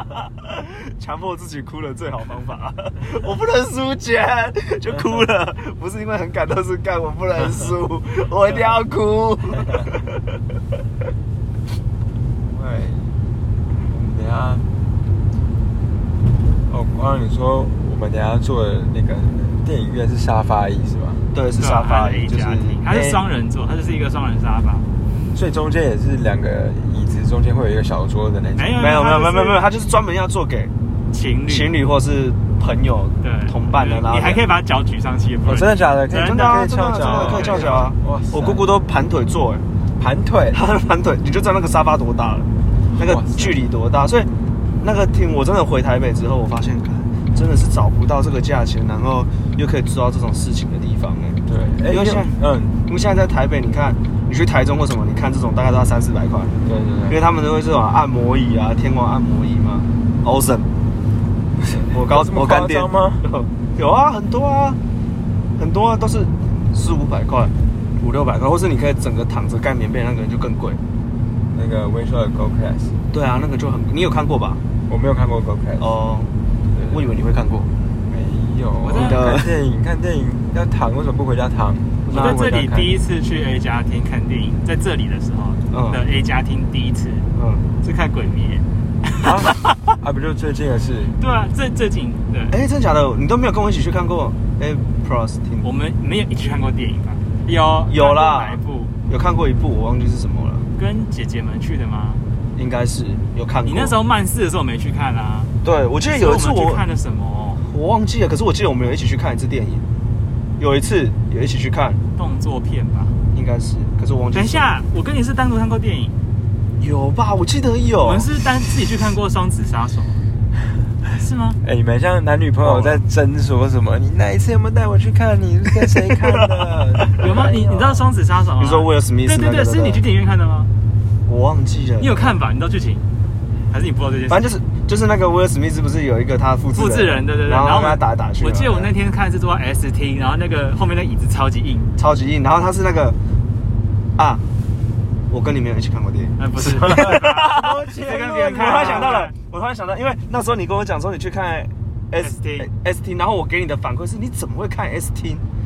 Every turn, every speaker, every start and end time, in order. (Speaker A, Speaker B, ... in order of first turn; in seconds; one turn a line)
Speaker A: 0.1-10.4
Speaker B: 12.4-13.2
Speaker B: 13.9-14.7
Speaker B: 16.7-21.2
Speaker A: 21.3-23.2
Speaker C: 21.6-24.9
Speaker B: 25.3-28.8
Speaker C: 28.6-29.7
Speaker A: 28.8-30.7
Speaker C: 31.1-31.7
Speaker A: 31.5-34.4
Speaker C: 33.2-37.9
Speaker B: 35.5-38.7
Speaker A: 36.1-39.6
Speaker B: 40.0-40.6
Speaker A: 40.5-44.3
Speaker B: 43.0-43.6
Speaker A: 44.8-52.4
Speaker B: 51.5-52.8
Speaker A: 52.9-56.5
Speaker B: 56.6-57.2
Speaker A: 57.1-60.7
Speaker B: 61.6-63.2
Speaker A: 61.9-64.8
Speaker A: 65.6-70.8
Speaker B: 71.5-72.9
Speaker A: 73.1-74.6
Speaker B: 74.9-75.9
Speaker A: 75.8-76.3
Speaker B: 76.7-77.0
Speaker A: 76.9-77.7
Speaker B: 78.1-83.0
Speaker C: 78.8-79.2
Speaker A: 78.9-79.5
Speaker A: 82.1-82.4
Speaker C: 82.1-87.3
Speaker A: 85.7-86.0
Speaker A: 87.4-87.7
Speaker C: 87.8-89.7
Speaker B: 89.2-91.2
Speaker C: 91.2-92.6
Speaker A: 92.5-95.7
Speaker C: 95.6-98.9
Speaker A: 97.9-100.7
Speaker C: 100.8-102.2
Speaker A: 102.6-104.0
Speaker C: 103.7-105.5
Speaker A: 105.6-106.8
Speaker C: 106.0-107.7
Speaker A: 107.6-109.9
Speaker A: 110.6-112.0
Speaker C: 112.2-113.2
Speaker A: 113.3-114.7
Speaker C: 114.3-116.2
Speaker A: 116.8-118.3
Speaker C: 118.0-120.3
Speaker C: 121.1-121.6
Speaker B: 121.6-128.1
Speaker A: 122.6-123.0
Speaker A: 125.8-127.6
Speaker C: 127.2-130.7
Speaker A: 128.6-130.0
Speaker A: 131.3-132.4
Speaker C: 132.0-133.1
Speaker C: 133.7-134.5
Speaker A: 134.3-138.9
Speaker C: 136.8-141.9
Speaker A: 142.0-143.2
Speaker A: 144.2-144.4
Speaker A: 145.3-155.4
Speaker C: 146.4-149.3
Speaker B: 146.8-149.2
Speaker C: 152.2-152.7